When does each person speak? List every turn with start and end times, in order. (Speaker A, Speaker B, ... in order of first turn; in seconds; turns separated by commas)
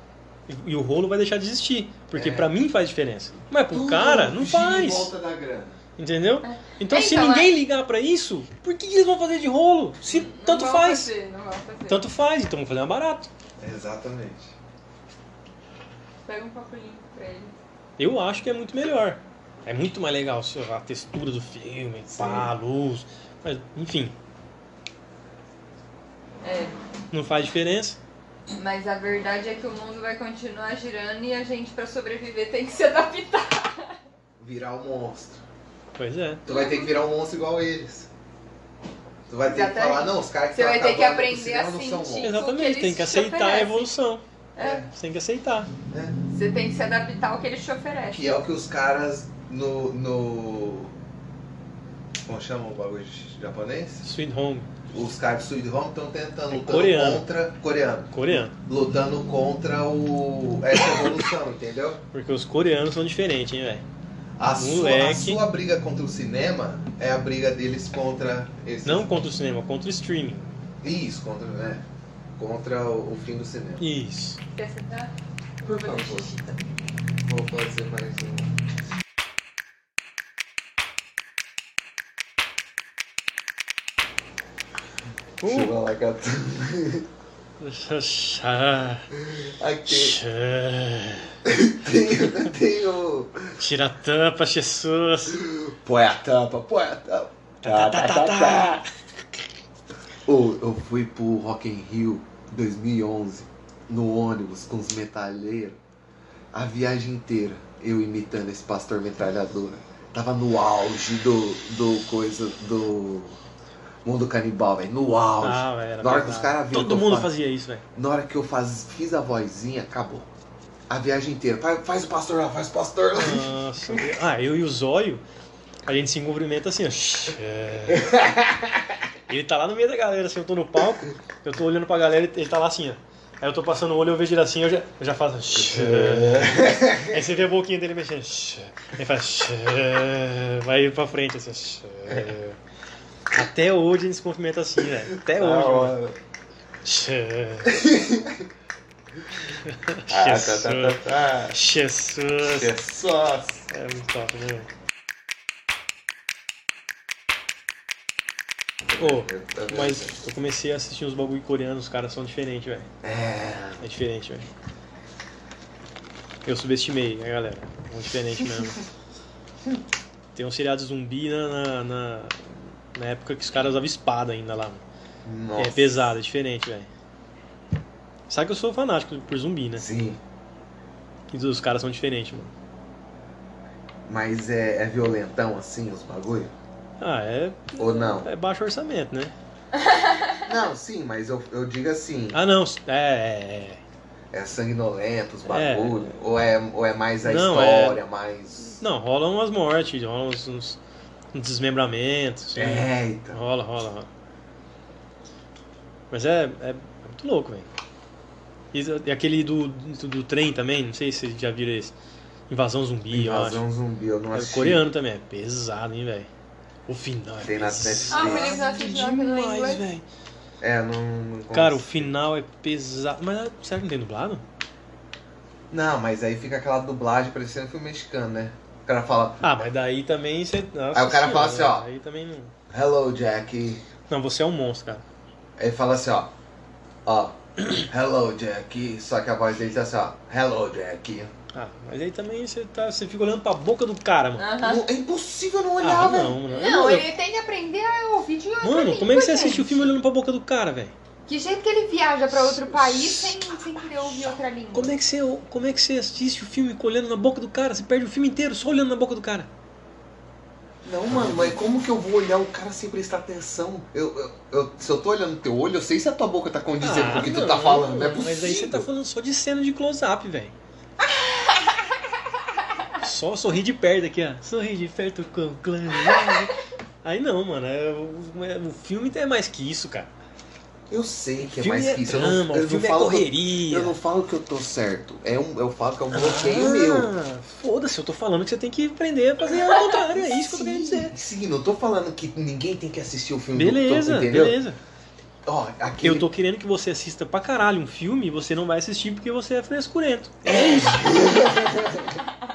Speaker A: 0.5-5.1, Speaker B: 2.1-2.5, Speaker B: 3.7-5.8, Speaker A: 6.0-11.1, Speaker C: 6.4-7.5, Speaker C: 10.1-12.0, Speaker A: 11.9-13.3, Speaker B: 13.6-14.5, Speaker C: 16.3-17.6, Speaker A: 18.0-24.1, Speaker B: 22.1-22.5, Speaker C: 26.4-26.8, Speaker A: 27.1-28.0, Speaker C: 28.6-34.0, Speaker B: 34.4-35.4, Speaker A: 36.0-36.4, Speaker B: 36.5-38.1, Speaker C: 36.5-37.0, Speaker B: 39.3-42.4, Speaker C: 39.5-43.9, Speaker A: 42.2-44.2, Speaker C: 44.6-44.9, Speaker B: 44.6-44.9, Speaker A: 44.9-45.7, Speaker B: 45.9-46.2, Speaker C: 46.3-48.3, Speaker B: 48.1-50.9, Speaker B: 52.3-54.0, Speaker A: 54.0-54.7, Speaker B: 54.9-62.0, Speaker A: 56.5-57.2, Speaker A: 58.1-58.5, Speaker A: 62.1-63.8, Speaker B: 64.4-69.1, Speaker A: 64.6-65.4, Speaker A: 68.8-70.5, Speaker B: 70.8-71.8, Speaker B: 72.4-73.8, Speaker A: 73.8-74.4, Speaker C: 74.5-76.5, Speaker B: 75.6-76.4, Speaker B: 77.2-78.5, Speaker A: 85.4-85.7, Speaker B: 85.4-87.1, Speaker A: 87.6-89.1, Speaker B: 89.2-90.2, Speaker A: 89.9-91.3, Speaker B: 91.5-93.6, Speaker A: 93.6-95.5, Speaker B: 95.3-98.8, Speaker A: 97.6-98.8, Speaker B: 100.3-105.8, Speaker B: 106.5-113.4, Speaker B: 114.0-117.3, Speaker A: 115.4-117.8, Speaker B: 118.0-120.3, Speaker B: 120.9-123.5, Speaker A: 123.2-125.2, Speaker A: 125.9-128.2, Speaker B: 127.9-128.8, Speaker A: 129.3-142.6, Speaker B: 135.5-137.2, Speaker A: 143.3-146.0, Speaker B: 145.2-146.2, Speaker A: 146.8-147.8, Speaker B: 147.7-148.5, Speaker A: 149.7-152.7, Speaker B: 150.1-151.6, Speaker B: 152.4-153.7, Speaker A: 153.7-154.7, Speaker B: 158.9-160.2, Speaker A: 159.0-162.9, Speaker B: 163.0-163.8, Speaker A: 163.8-164.5, Speaker A: 166.4-168.8, Speaker A: 170.3-174.8, Speaker B: 175.2-176.1, Speaker A: 175.6-176.9, Speaker A: 178.3-179.9, Speaker B: 179.8-180.2, Speaker A: 181.3-182.5, Speaker B: 184.1-186.5, Speaker A: 187.0-189.3, Speaker B: 187.8-188.3, Speaker C: 189.7-190.5, Speaker B: 190.4-192.4, Speaker A: 192.3-193.8, Speaker B: 194.3-198.8, Speaker A: 195.5-196.1, Speaker A: 197.2-198.0, Speaker A: 198.8-200.8, Speaker A: 201.3-204.1, Speaker B: 202.6-203.4, Speaker A: 206.1-207.7, Speaker A: 208.7-211.9, Speaker A: 212.5-213.6, Speaker B: 213.1-214.8, Speaker A: 214.3-216.3, Speaker A: 216.9-220.1, Speaker B: 217.4-218.6, Speaker C: 218.1-219.9, Speaker B: 220.6-222.1, Speaker A: 221.5-224.4, Speaker B: 225.7-229.6, Speaker A: 229.4-232.5, Speaker B: 230.9-231.9, Speaker B: 232.7-233.8, Speaker A: 234.1-235.0, Speaker B: 235.6-236.3, Speaker B: 237.1-241.3, Speaker A: 241.5-244.5, Speaker C: 244.4-244.9, Speaker B: 244.6-246.4, Speaker A: 245.8-247.1, Speaker C: 246.5-249.9, Speaker A: 248.6-250.9, Speaker C: 251.3-254.9, Speaker A: 252.4-253.3, Speaker A: 254.7-259.5, Speaker B: 260.8-268.9, Speaker A: 261.1-261.6, Speaker A: 266.8-270.5, Speaker C: 271.1-271.9, Speaker A: 273.0-280.1, Speaker B: 280.9-287.1, Speaker A: 281.4-284.0, Speaker A: 286.1-291.2, Speaker B: 289.9-294.6, Speaker A: 293.6-294.8, Speaker B: 295.5-296.3, Speaker A: 296.0-301.0, Speaker B: 300.4-302.2